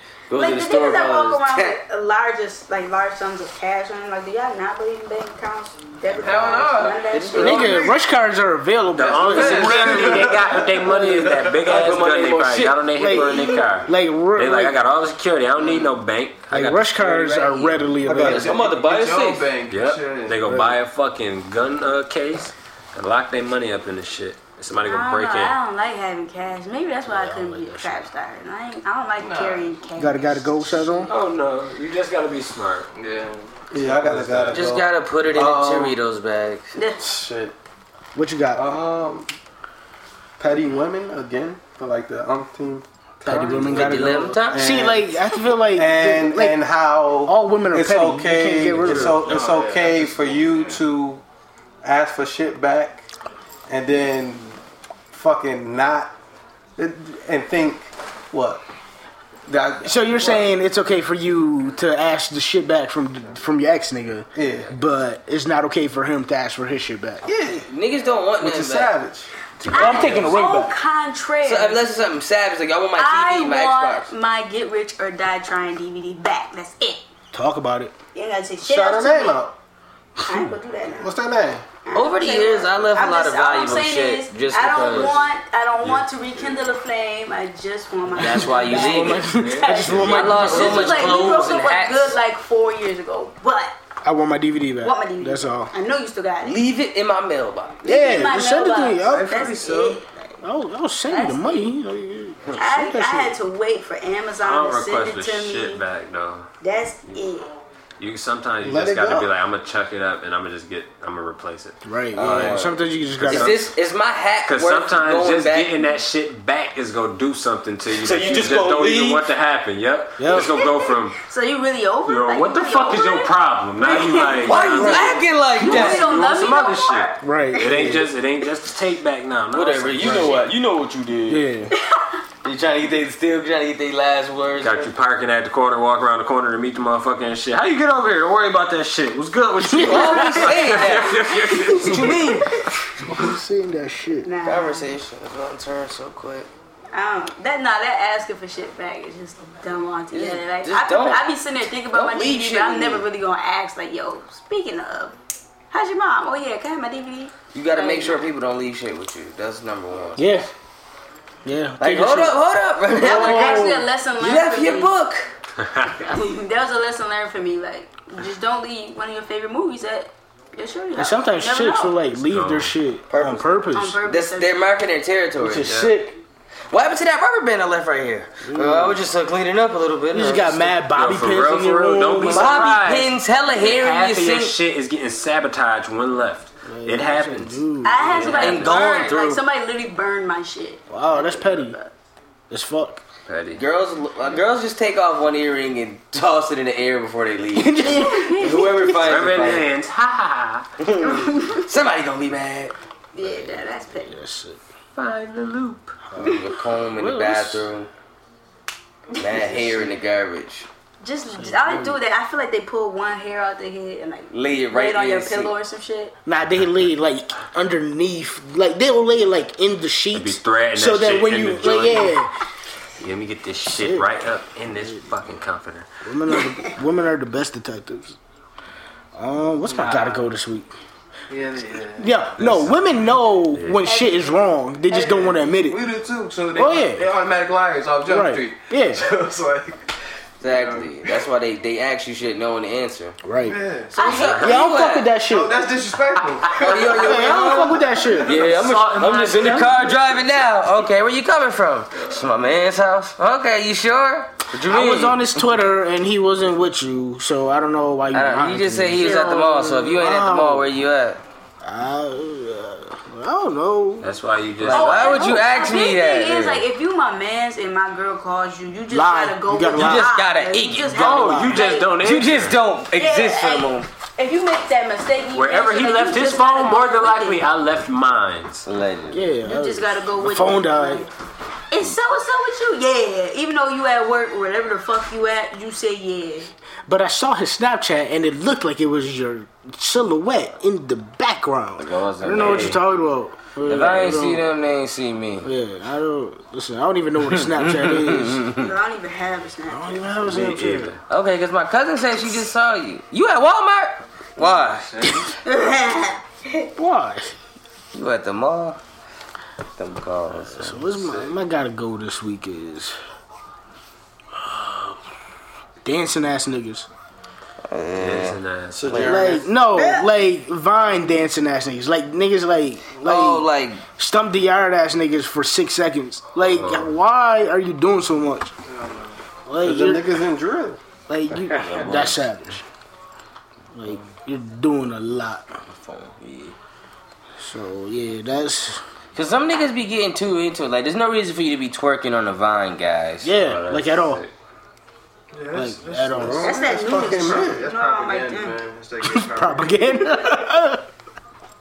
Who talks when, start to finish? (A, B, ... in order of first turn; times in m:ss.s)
0:00.3-0:01.8 A
0:00.3-0:07.9 B
0:06.1-0:07.9 C
0:07.1-0:07.8 A
0:07.4-0:11.3 D
0:08.9-0:17.8 E
0:09.0-0:11.5 C
0:11.6-0:13.3 A
0:12.9-0:14.8 D
0:15.6-0:15.9 C
0:16.5-0:18.5 D
0:18.0-0:18.7 F
0:18.2-0:19.4 A
0:18.3-0:20.4 C
0:19.1-0:25.6 E
0:24.8-0:30.9 B
0:27.1-0:28.0 D
0:29.2-0:29.7 C
0:30.0-0:31.1 D
0:31.0-0:32.9 E
0:32.9-0:33.5 C
0:33.7-0:36.0 F
0:33.8-0:34.8 E
0:34.5-0:36.7 A
0:36.7-0:37.0 B
0:37.0-0:37.5 F
0:38.1-0:38.7 D
0:38.5-0:39.3 F
0:40.4-0:51.2 F
0:43.2-0:46.7 D
0:43.5-0:44.7 A
0:47.2-0:49.4 D
0:48.9-0:50.8 C
0:51.8-0:53.0 F
0:53.7-0:54.5 F
0:55.1-0:56.1 F
0:56.8-0:58.6 F
0:59.5-1:00.5 F
0:59.8-1:07.2 D
1:04.3-1:04.7 F
1:07.3-1:07.6 F
1:07.4-1:08.9 A
1:08.4-1:09.3 F
1:09.6-1:10.3 E
1:09.6-1:10.7 D
1:09.7-1:11.8 B
1:11.4-1:14.1 A
1:13.0-1:17.0 B
1:17.3-1:17.9 D
1:18.1-1:19.4 B
1:18.6-1:19.5 F
1:20.2-1:20.5 D
1:20.2-1:21.1 B
1:20.9-1:21.6 F
1:21.8-1:33.7 B
1:21.9-1:25.2 A
1:28.2-1:29.3 A
1:28.2-1:31.4 D
1:29.9-1:32.2 A
1:34.0-1:35.7 D
1:34.8-1:36.6 B
1:36.4-1:37.8 A
1:37.8-1:39.5 D
1:37.8-1:40.3 B
1:40.4-1:43.4 D
1:41.1-1:41.7 B
1:42.6-1:45.8 B
1:44.4-1:46.5 E
1:46.6-1:47.5 B
1:48.0-1:52.6 E
1:48.6-1:49.3 F
1:51.8-1:53.6 D
1:52.1-1:55.7 A
1:53.2-1:53.7 E
1:54.4-2:01.2 E
1:58.0-1:59.0 A
2:00.2-2:00.5 D
2:00.3-2:07.2 B
2:02.0-2:10.5 E
2:04.0-2:06.1 A
2:04.7-2:05.0 D
2:07.2-2:08.1 D
2:09.5-2:11.4 A
2:10.0-2:10.3 D
2:11.3-2:11.7 D
2:12.4-2:14.9 A
2:14.6-2:22.4 E
2:19.7-2:20.6 D
2:19.7-2:22.5 A
2:21.8-2:22.4 D
2:23.0-2:24.3 D
2:24.2-2:24.9 B
2:24.4-2:26.5 A
2:26.9-2:35.2 B
2:30.1-2:31.3 A
2:31.9-2:33.1 A
2:35.7-2:38.2 B
2:37.5-2:40.4 A
2:40.2-2:40.5 D
2:41.4-2:43.9 D
2:41.8-2:45.3 A
2:43.0-2:44.9 B
2:45.6-2:45.9 E
2:46.0-2:52.0 B
2:51.0-2:54.0 D
2:52.2-2:52.7 E
2:53.1-2:56.0 A
2:53.7-2:54.7 B
2:55.4-2:56.2 D
2:56.7-3:00.7 A
2:58.4-2:59.0 D
3:00.1-3:02.9 D
3:00.9-3:07.6 E
3:02.2-3:04.5 A
3:06.7-3:08.5 D
3:07.8-3:11.9 B
3:08.1-3:09.1 E
3:08.2-3:09.4 A
3:10.9-3:11.8 D
3:12.5-3:13.0 D
3:13.2-3:13.6 E
3:13.6-3:19.7 A
3:17.5-3:19.0 D
3:17.9-3:18.6 B
3:19.0-3:20.7 E
3:20.8-3:22.7 A
3:21.0-3:21.6 B
3:23.1-3:24.2 B
3:23.2-3:24.6 D
3:25.0-3:26.0 E
3:26.2-3:27.9 A
3:26.9-3:27.7 D
3:29.2-3:30.7 A
3:31.0-3:36.1 B
3:31.3-3:32.0 D
3:34.3-3:35.5 A
3:36.2-3:42.3 D
3:40.1-3:42.2 E
3:43.0-3:45.9 E
3:43.8-3:44.0 D
3:46.0-3:48.2 D
3:49.2-3:50.7 D
3:49.7-3:50.2 C
3:51.3-3:52.1 C
3:52.0-3:55.8 D
3:52.4-3:52.8 E
3:53.5-3:53.8 E
3:53.8-3:54.4 B
3:54.9-3:59.8 C
3:56.5-3:57.0 D
3:58.0-3:59.0 D
4:00.4-4:03.2 A
4:00.4-4:01.2 C
4:03.2-4:03.6 D
4:03.4-4:03.9 C
4:03.9-4:04.4 B
4:04.0-4:05.1 A
4:04.4-4:05.6 D
4:05.2-4:08.2 C
4:06.4-4:06.8 E
4:06.6-4:15.2 A
4:06.8-4:09.7 D
4:08.2-4:10.0 E
4:14.6-4:20.7 D
4:18.1-4:21.2 A
4:19.0-4:19.7 B
4:21.6-4:24.1 D
4:24.0-4:25.2 E
4:24.6-4:26.6 A
4:24.7-4:31.9 B
4:25.1-4:25.4 D
4:28.9-4:30.1 D
4:29.7-4:33.9 A
4:30.9-4:32.6 E
4:31.0-4:31.5 D
4:32.9-4:37.4 B
4:35.3-4:38.7 E
4:38.7-4:39.2 A
4:39.1-4:41.1 D
4:39.4-4:41.1 B
4:41.7-4:46.5 B
4:46.9-4:54.5 D
4:51.8-4:52.8 A
4:52.3-4:52.8 E
4:53.6-4:55.5 A
4:55.4-4:58.5 D
4:57.3-4:58.6 A
4:58.6-5:00.1 B
4:59.7-5:00.9 D
5:00.2-5:01.0 E
5:01.1-5:05.1 A
5:04.4-5:05.3 C
5:05.4-5:06.7 B
5:06.8-5:07.3 D
5:07.9-5:08.8 A
5:09.8-5:10.9 A
5:10.5-5:13.0 D
5:14.4-5:15.0 D
5:15.8-5:16.9 D
5:17.7-5:19.3 A
5:18.0-5:19.1 E
5:18.7-5:19.4 F
5:18.9-5:28.5 D
5:18.9-5:19.4 C
5:23.0-5:23.8 A
5:26.5-5:26.9 E
5:28.7-5:29.2 C
5:29.4-5:30.1 D
5:29.6-5:30.8 F
5:31.1-5:32.6 D
5:31.6-5:32.2 A
5:33.7-5:35.6 D
5:35.8-5:36.5 A
5:37.4-5:38.8 D
5:39.1-5:43.3 A
5:43.2-5:44.2 D
5:43.4-5:44.3 E
5:45.3-5:50.1 C
5:45.5-5:46.6 D
5:46.1-5:47.7 F
5:46.4-5:48.6 B
5:49.1-5:50.8 D